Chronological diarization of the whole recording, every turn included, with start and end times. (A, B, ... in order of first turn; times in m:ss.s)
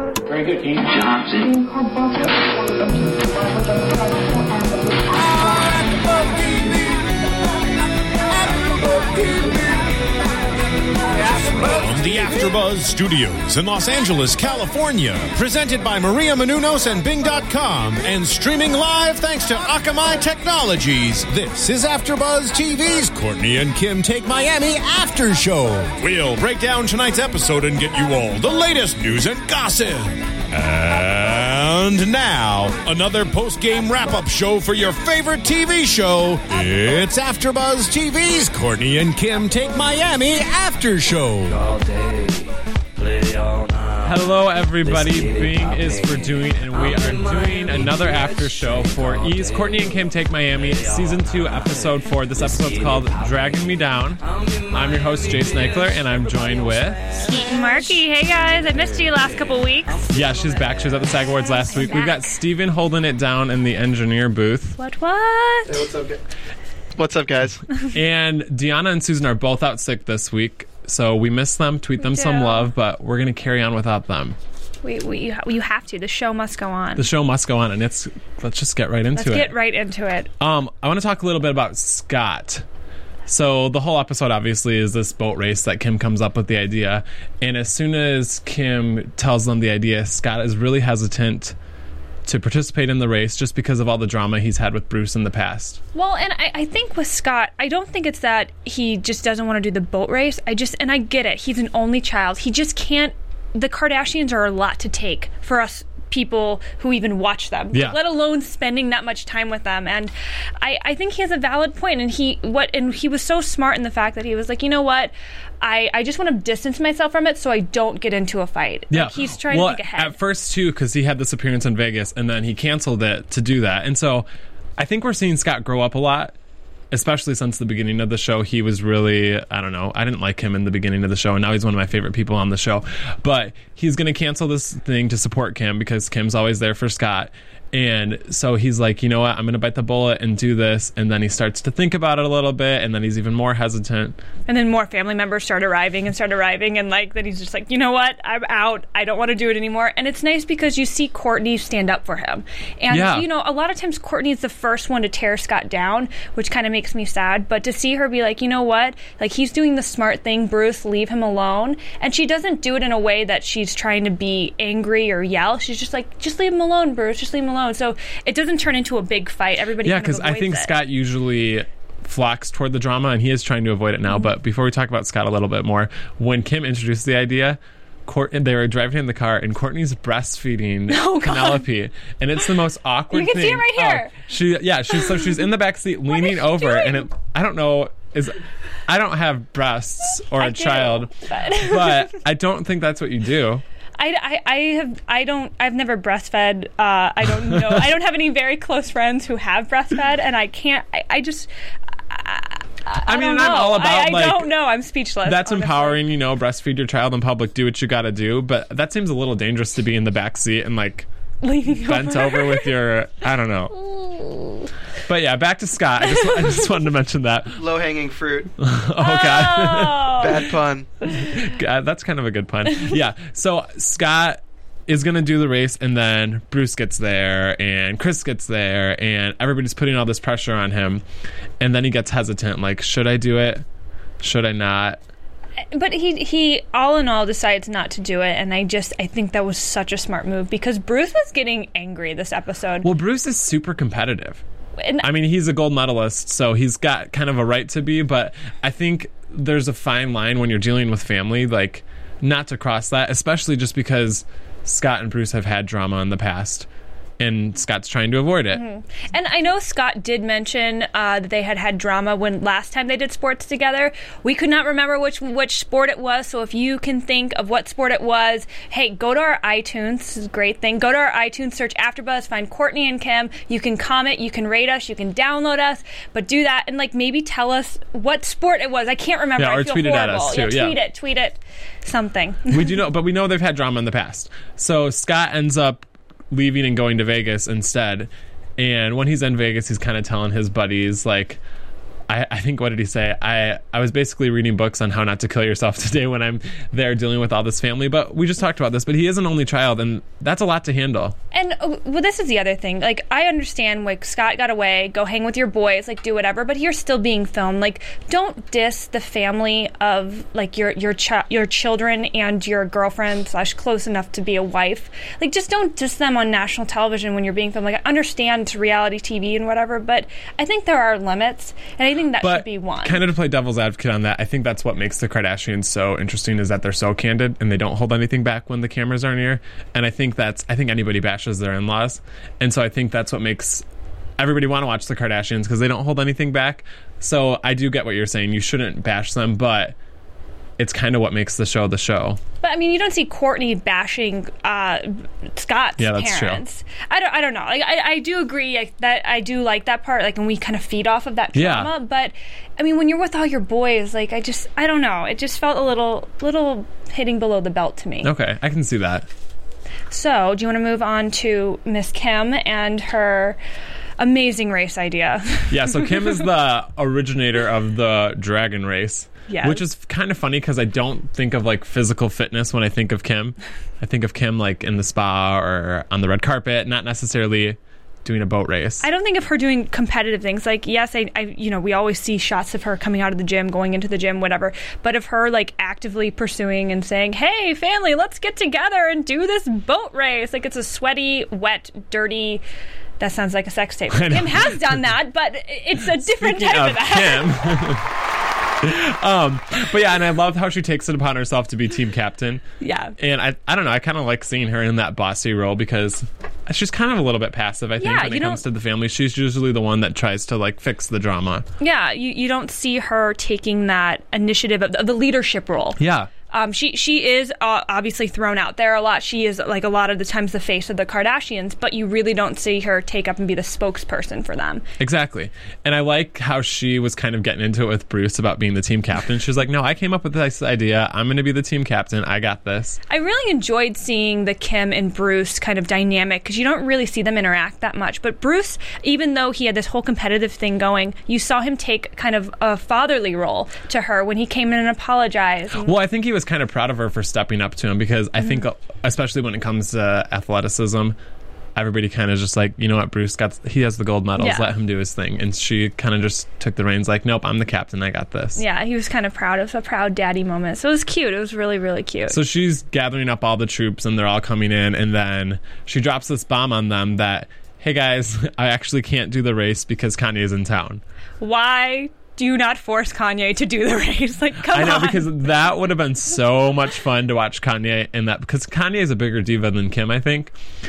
0:05.2-0:07.0 A
0:08.5-0:09.8 A
0:11.2-0:41.7 A
0:44.0-0:57.1 B
0:57.2-1:00.2 C
1:00.1-1:04.8 B
1:01.4-1:02.3 C
1:04.8-1:05.9 C
1:05.7-1:06.2 D
1:07.0-1:07.6 D
1:07.9-1:14.4 B
1:12.0-1:12.7 C
1:14.8-1:17.0 C
1:17.0-1:19.6 B
1:19.2-1:20.3 C
1:20.4-1:22.6 B
1:23.3-1:31.6 B
1:32.3-1:35.8 B
1:36.0-2:00.2 C
1:58.9-2:04.3 B
2:04.8-2:06.3 B
2:06.9-2:24.2 B
2:24.5-2:50.7 C
2:32.9-2:33.3 B
2:49.8-3:13.6 B
3:00.9-3:01.6 C
3:03.1-3:04.1 C
3:06.1-3:07.1 C
3:10.4-3:12.2 C
3:14.0-3:21.5 C
3:22.1-3:26.0 C
3:23.1-3:24.6 B
3:25.2-3:31.1 B
3:31.4-3:32.7 C
3:31.7-3:33.8 B
3:33.7-3:34.7 C
3:35.1-3:37.6 B
3:36.2-3:36.6 C
3:37.6-3:38.5 D
3:38.6-3:40.4 B
3:39.0-3:40.4 C
3:40.2-3:40.9 D
3:41.1-3:51.0 B
3:51.6-3:53.6 B
3:54.2-3:55.0 B
3:55.7-4:02.9 C
4:02.8-4:04.4 B
4:04.8-4:05.1 C
4:05.0-4:16.7 B
4:17.2-4:18.6 B
4:18.5-4:42.7 C
4:39.4-4:40.8 B
4:42.5-4:51.4 B
4:52.1-5:01.2 B
5:01.3-5:23.0 C
5:22.2-5:33.6 B
5:34.2-5:39.8 B
5:40.6-5:42.2 B
5:42.4-5:58.1 C
5:45.8-5:46.4 B
5:51.3-5:51.7 B
5:58.0-5:59.1 B
5:59.9-6:03.4 C
6:04.0-6:05.9 C
6:05.5-6:18.8 B
6:09.3-6:09.6 C
6:18.8-6:32.4 C
6:33.0-6:37.5 C
6:33.9-6:34.8 B
6:36.0-6:37.9 B
6:38.6-6:42.4 B
6:42.6-6:42.9 C
6:43.0-6:51.4 B
6:47.8-6:48.4 C
6:51.6-6:55.8 C
6:55.8-6:56.1 B
6:56.3-7:04.6 C
7:04.8-7:12.8 B
7:12.9-7:25.7 C
7:25.6-7:31.0 B
7:31.6-7:38.4 B
7:34.2-7:34.5 C
7:38.4-7:42.2 C
7:42.1-7:50.8 B
7:51.2-7:55.1 C
7:54.5-8:00.3 B